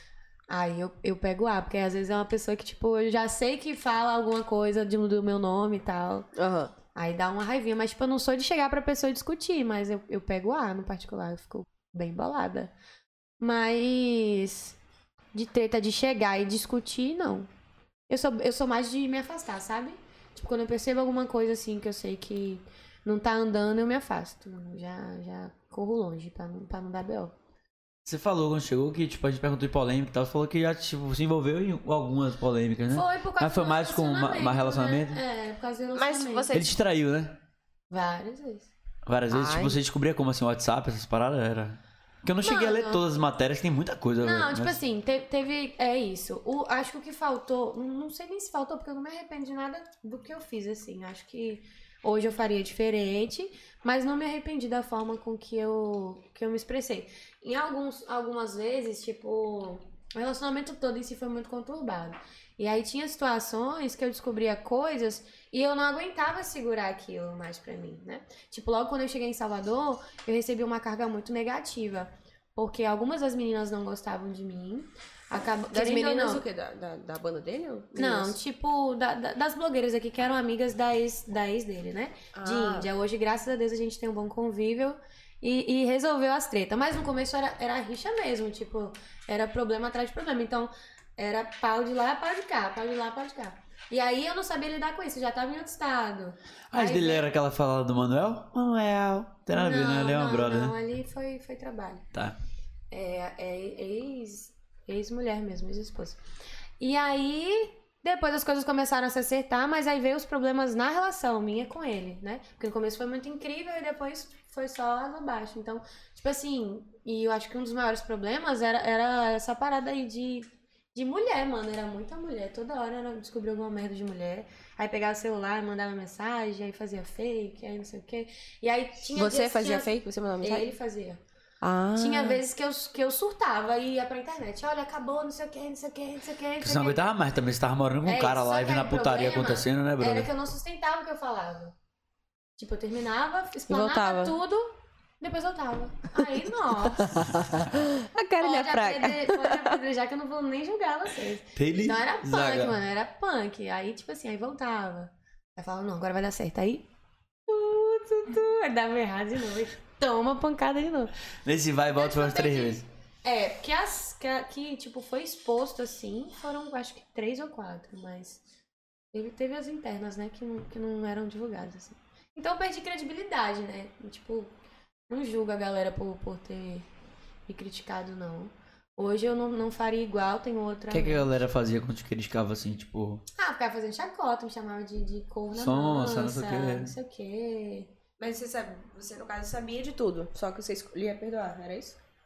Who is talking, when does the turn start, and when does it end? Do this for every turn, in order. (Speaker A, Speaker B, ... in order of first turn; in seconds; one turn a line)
Speaker A: 0.5-6.3
Speaker B: 6.3-6.7
Speaker A: 7.0-12.7
Speaker A: 13.4-14.8
Speaker A: 15.3-17.5
Speaker A: 18.1-27.3
Speaker C: 28.1-35.2
Speaker A: 32.9-36.6
Speaker B: 35.9-36.8
Speaker C: 36.5-37.4
Speaker A: 37.9-38.7
Speaker C: 39.1-44.8
Speaker B: 39.3-39.8
Speaker A: 42.4-43.0
Speaker A: 44.2-76.5
Speaker B: 75.7-78.4
Speaker A: 78.0-97.3
Speaker B: 82.3-82.9
Speaker C: 96.7-100.7
Speaker A: 99.5-102.1
Speaker A: 102.9-106.2
Speaker A: 106.8-131.2
Speaker B: 129.2-130.7
Speaker B: 131.6-132.4
Speaker A: 132.0-137.1
Speaker C: 136.6-140.3
Speaker A: 138.1-141.8
Speaker A: 142.6-147.3
Speaker B: 143.7-144.3
Speaker B: 147.7-149.8
Speaker A: 148.4-156.9
Speaker C: 151.6-152.8
Speaker A: 157.5-161.1
Speaker C: 161.4-162.8
Speaker A: 161.9-168.4
Speaker A: 169.1-174.5
Speaker A: 175.1-176.9
Speaker A: 177.5-181.3
Speaker C: 180.9-183.2
Speaker A: 183.4-187.9
Speaker C: 185.6-186.9
Speaker B: 188.2-192.0